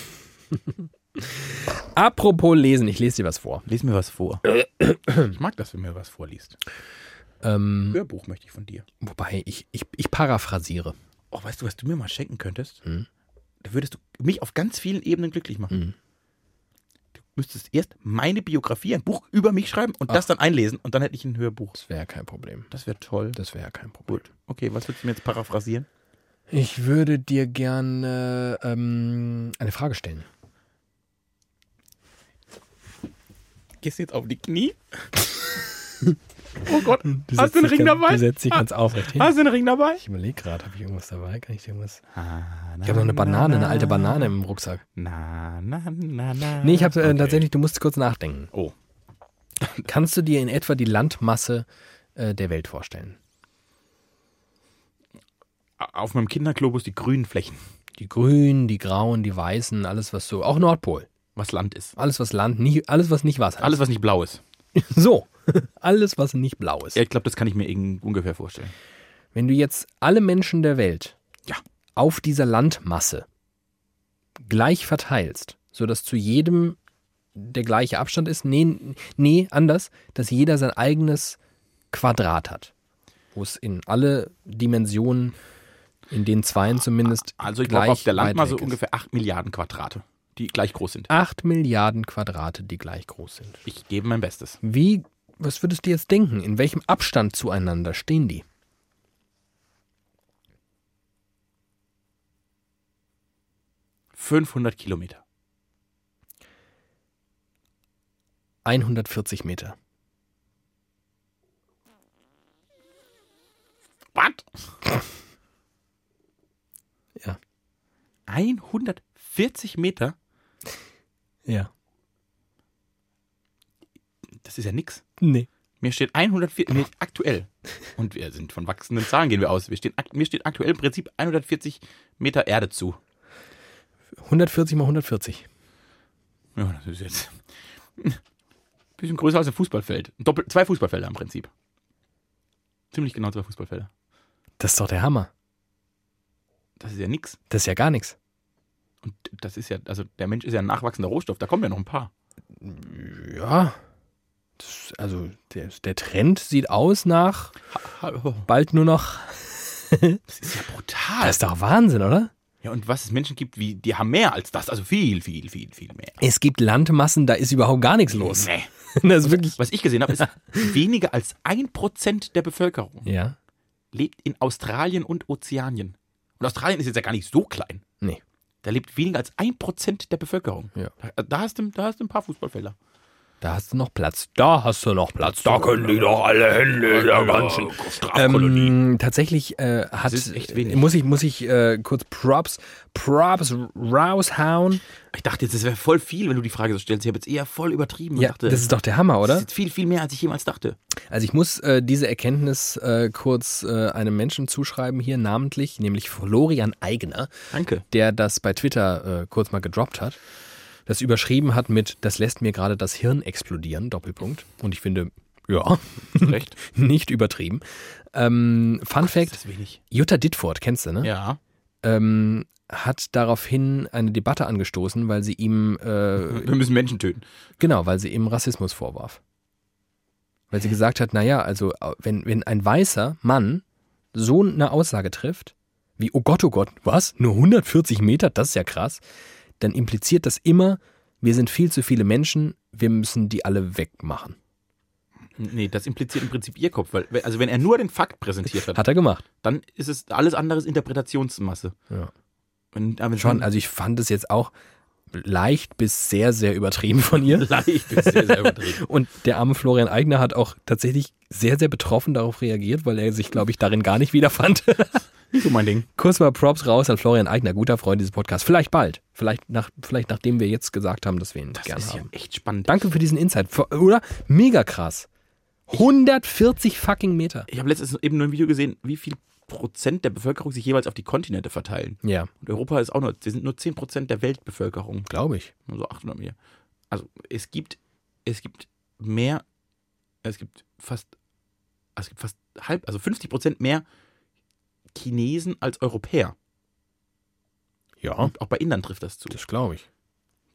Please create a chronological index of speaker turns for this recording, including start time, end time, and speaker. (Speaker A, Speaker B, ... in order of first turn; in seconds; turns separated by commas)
Speaker A: 1.2-3.7, Speaker B: 3.7-4.5, Speaker A: 4.5-5.3, Speaker B: 5.2-6.6, Speaker A: 7.4-8.0, Speaker B: 7.9-8.8, Speaker A: 9.0-10.9, Speaker B: 11.3-12.8, Speaker B: 13.6-15.8, Speaker B: 17.4-21.8, Speaker A: 21.7-22.7, Speaker B: 22.7-23.4, Speaker A: 23.4-24.2, Speaker B: 24.1-25.9, Speaker A: 26.5-30.3, Speaker B: 33.8-35.1, Speaker B: 36.6-40.0, Speaker A: 37.1-39.3, Speaker A: 40.0-42.0, Speaker B: 42.1-44.3, Speaker A: 42.9-44.8, Speaker B: 45.0-47.4, Speaker A: 46.6-48.5, Speaker A: 49.8-53.2, Speaker B: 55.8-57.6, Speaker A: 58.0-61.1, Speaker B: 61.4-62.0, Speaker A: 62.0-63.8, Speaker B: 63.6-64.4, Speaker A: 64.7-67.0, Speaker B: 67.0-68.7, Speaker A: 69.3-71.1, Speaker A: 72.0-73.3, Speaker A: 74.4-76.8, Speaker A: 77.4-81.4, Speaker A: 81.9-82.7, Speaker A: 83.3-85.4, Speaker A: 86.1-88.8, Speaker B: 87.4-91.1, Speaker A: 91.1-93.6, Speaker B: 93.6-94.6, Speaker A: 94.6-98.5, Speaker B: 104.1-105.2, Speaker A: 108.6-109.8, Speaker B: 114.1-114.5, Speaker B: 118.3-120.2, Speaker B: 124.4-125.0, Speaker A: 125.2-125.5, Speaker B: 125.8-133.0, Speaker A: 134.2-135.4, Speaker B: 136.6-137.4, Speaker B: 139.0-141.5, Speaker B: 142.9-143.9, Speaker A: 144.6-145.3, Speaker B: 146.8-147.4, Speaker A: 147.5-148.2, Speaker B: 149.0-152.1, Speaker A: 152.6-153.8, Speaker A: 154.6-157.5, Speaker B: 157.7-158.5, Speaker A: 158.5-160.2, Speaker B: 160.3-161.4, Speaker A: 161.2-162.3, Speaker B: 162.6-166.2, Speaker A: 166.2-169.6, Speaker B: 168.1-168.7, Speaker B: 169.2-173.1, Speaker A: 170.2-170.7, Speaker A: 173.1-173.4, Speaker B: 173.9-177.8, Speaker B: 178.6-182.7, Speaker A: 183.4-194.8, Speaker B: 185.3-186.2, Speaker B: 186.7-188.8, Speaker B: 190.1-190.9, Speaker B: 195.1-198.7, Speaker A: 198.2-199.5, Speaker B: 199.2-200.8, Speaker A: 201.1-207.3, Speaker B: 207.5-207.8, Speaker A: 207.8-210.2, Speaker A: 210.9-219.4, Speaker B: 216.1-216.6, Speaker B: 219.0-219.8, Speaker A: 219.9-221.1, Speaker B: 221.0-221.4, Speaker A: 221.8-226.5, Speaker B: 226.2-227.2, Speaker A: 227.6-229.2, Speaker A: 230.5-239.0, Speaker A: 239.6-244.4, Speaker B: 245.4-248.8, Speaker A: 248.6-249.2, Speaker B: 249.4-251.7, Speaker B: 252.7-253.5, Speaker A: 253.2-254.5, Speaker A: 255.1-265.1, Speaker B: 257.3-258.8, Speaker B: 265.3-265.9, Speaker A: 266.0-272.1, Speaker B: 271.6-272.7, Speaker A: 272.7-275.1, Speaker A: 275.7-277.5, Speaker B: 277.5-285.1, Speaker A: 282.0-282.3, Speaker A: 285.1-285.5, Speaker B: 285.7-286.4, Speaker B: 286.9-289.4, Speaker B: 290.2-291.1, Speaker B: 291.9-293.9, Speaker B: 294.9-296.4, Speaker A: 298.0-298.3, Speaker B: 298.2-299.4, Speaker A: 299.3-299.9